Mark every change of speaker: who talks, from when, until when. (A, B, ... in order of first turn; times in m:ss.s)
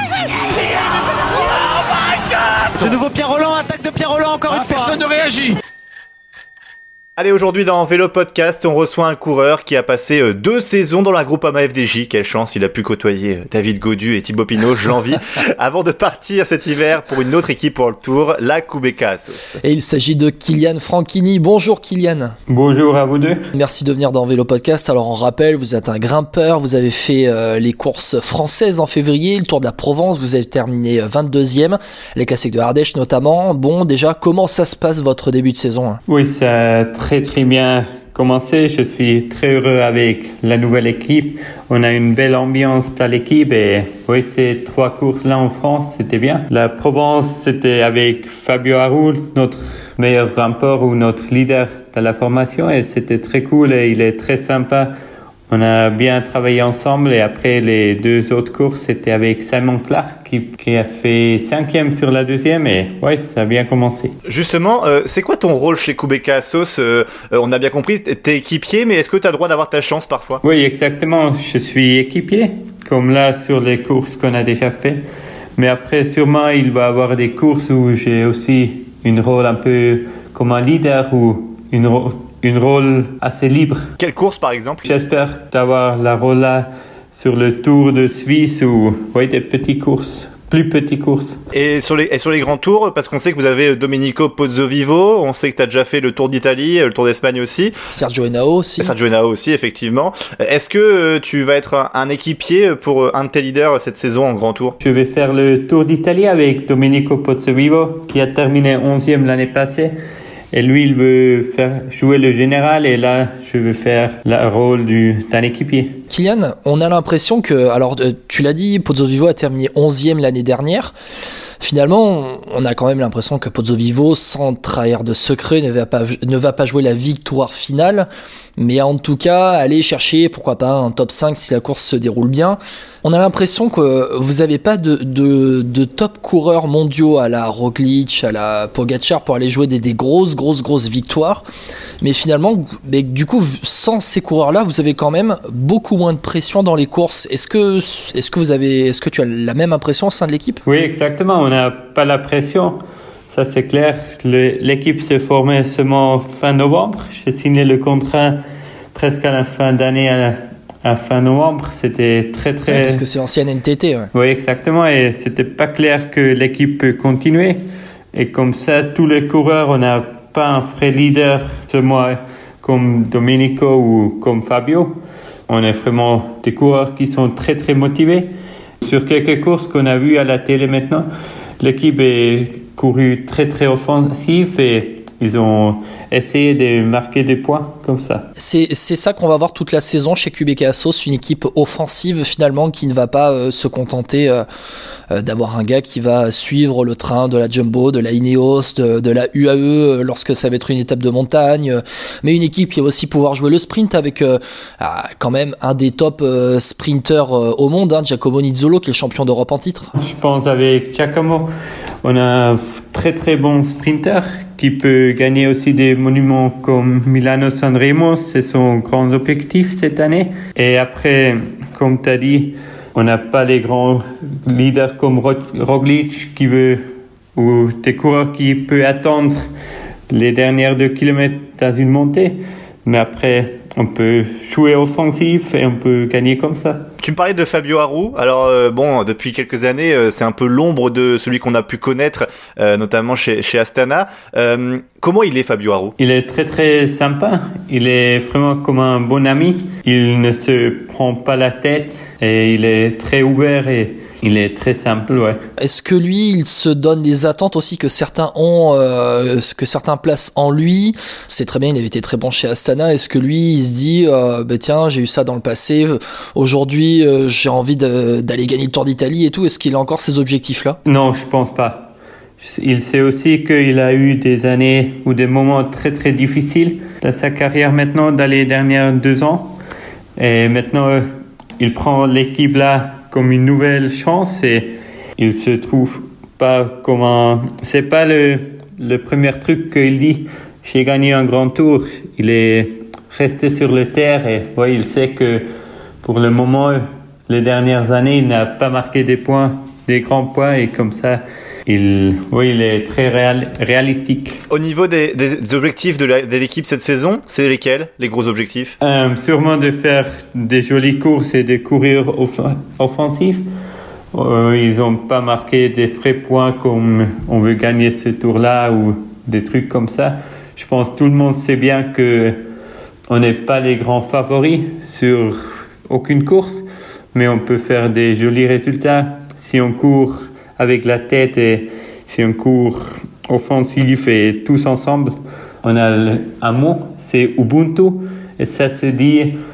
0:00.6-0:02.9 A
0:02.8-0:05.0 B
0:04.6-0:05.6 A
0:07.2-0:19.6 C
0:19.6-0:22.4 D
0:22.5-0:23.4 E
0:23.5-0:36.0 D
0:36.1-0:54.9 E
0:55.5-1:04.1 E
1:04.3-1:10.4 C
1:10.4-1:15.0 E
1:15.6-1:23.9 E
1:24.0-1:24.9 C
1:24.8-1:31.4 E
1:31.5-1:37.7 C
1:37.9-1:38.9 D
1:38.8-1:44.8 C
1:44.8-1:49.9 E
1:50.5-1:56.0 E
1:56.1-2:00.9 D
2:01.6-2:21.4 D
2:22.0-2:30.6 D
2:30.6-2:32.8 E
2:33.3-2:38.4 E
2:38.9-2:43.0 E
2:42.7-2:44.1 D
2:44.1-2:47.6 E
2:48.1-2:54.9 E
2:55.5-2:58.3 E
2:58.8-3:01.0 E
3:01.6-3:08.2 E
3:08.4-3:14.4 D
3:15.1-3:29.9 D
3:29.9-3:31.5 E
3:32.0-3:46.8 E
3:47.3-3:49.4 E
3:50.1-3:56.8 E
3:57.0-4:05.9 C
4:06.0-4:15.4 E
4:15.6-4:30.8 D
4:30.8-4:31.9 E
4:32.4-4:39.5 E
4:40.2-4:41.0 E
4:41.6-4:55.4 E
4:56.0-5:04.4 E
5:04.5-5:08.8 C
5:08.8-5:13.4 E
5:14.1-5:22.4 E
5:23.1-5:39.4 E